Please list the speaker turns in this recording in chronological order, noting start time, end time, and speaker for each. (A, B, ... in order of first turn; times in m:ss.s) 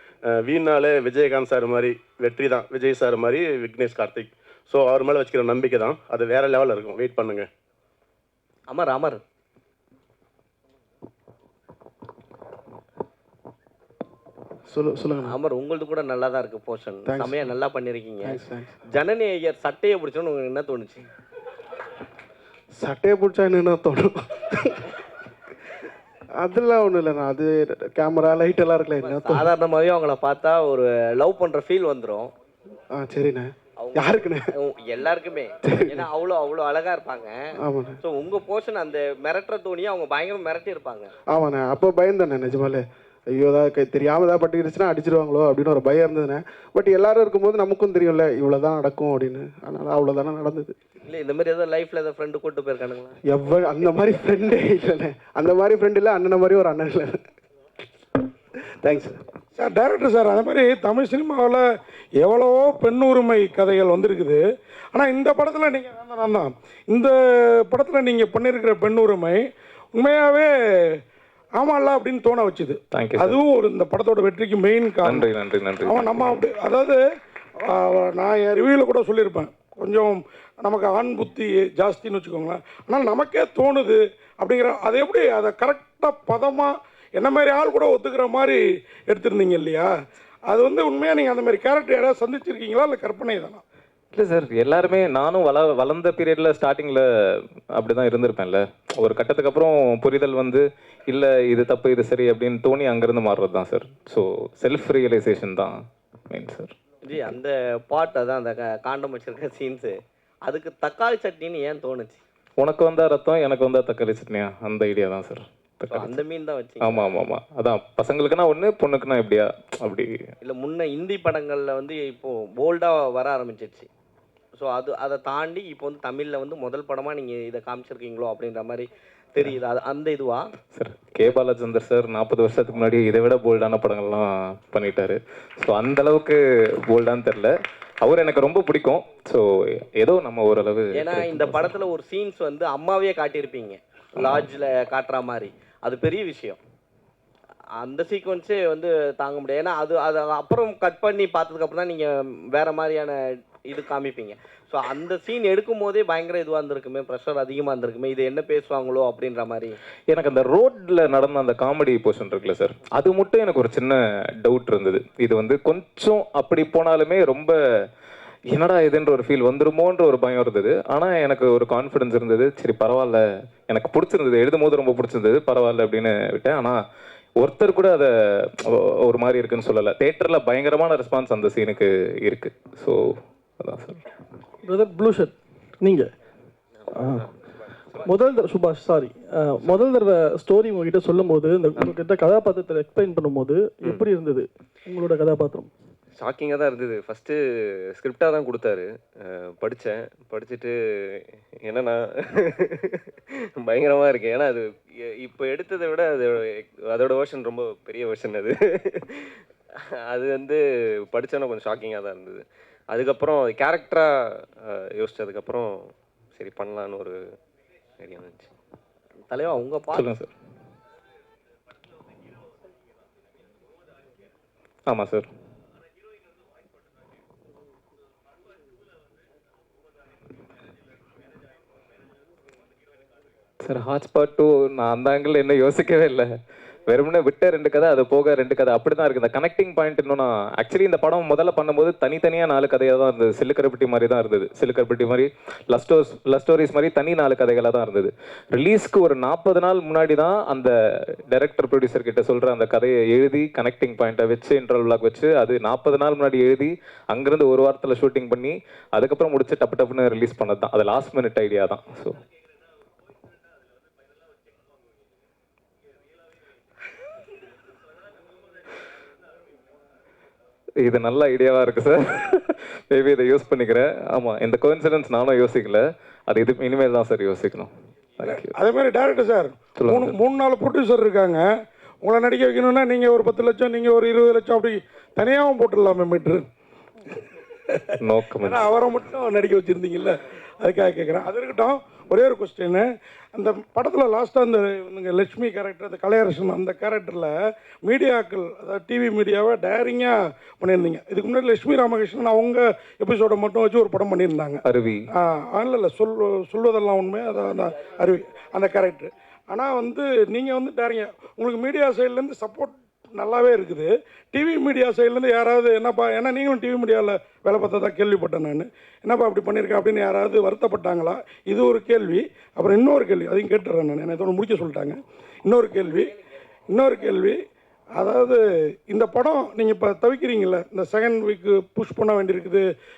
0:00.3-0:07.5 A
0:08.7-0:09.2 B
0:14.7-0:15.3 C
0:15.2-0:21.1 B
0:17.1-0:17.4 C
0:18.2-0:18.7 C
0:22.8-0:24.9 C
0:26.4-0:29.5 C
0:29.0-0:32.3 B
0:32.9-0:34.5 C
0:33.8-0:37.4 B
0:35.6-0:36.1 C
0:37.6-0:38.0 C
0:38.0-0:41.1 B
0:41.3-0:50.8 C
0:51.1-0:53.2 B
0:53.2-0:57.2 C
0:58.8-0:59.2 C
0:59.6-1:01.6 D
1:02.2-1:04.4 D
1:04.9-1:11.0 D
1:11.6-1:15.3 D
1:12.9-1:13.4 E
1:15.0-1:16.3 E
1:15.8-1:17.0 D
1:17.6-1:29.9 D
1:30.5-1:33.6 D
1:34.1-1:45.8 E
1:46.3-1:47.4 E
1:47.0-1:52.2 B
1:52.6-1:56.2 E
1:55.9-1:57.2 B
1:56.8-2:00.3 E
2:00.4-2:03.9 B
2:04.6-2:10.5 B
2:10.7-2:21.7 E
2:21.0-2:26.6 B
2:24.2-2:24.5 E
2:27.8-2:39.8 B
2:40.1-2:47.6 E
2:48.5-2:56.8 E
2:57.4-3:04.0 E
3:04.6-3:06.1 F
3:06.9-3:07.3 F
3:08.0-3:15.7 F
3:16.2-3:17.4 G
3:18.0-3:23.0 G
3:23.6-3:29.3 G
3:30.1-3:37.2 G
3:38.0-3:38.5 G
3:39.3-3:40.1 B
3:39.9-3:40.3 E
3:44.9-3:45.3 E
3:53.6-3:56.3 E
3:56.9-4:10.7 E
4:11.3-4:22.2 E
4:30.8-4:38.5 E
4:38.2-4:41.4 D
4:39.8-4:40.2 E
4:42.0-4:46.4 D
4:48.0-4:48.7 E
4:48.4-4:57.3 D
4:57.8-5:26.2 D
5:04.6-5:05.1 E
5:26.7-5:27.4 D
5:28.0-5:32.7 D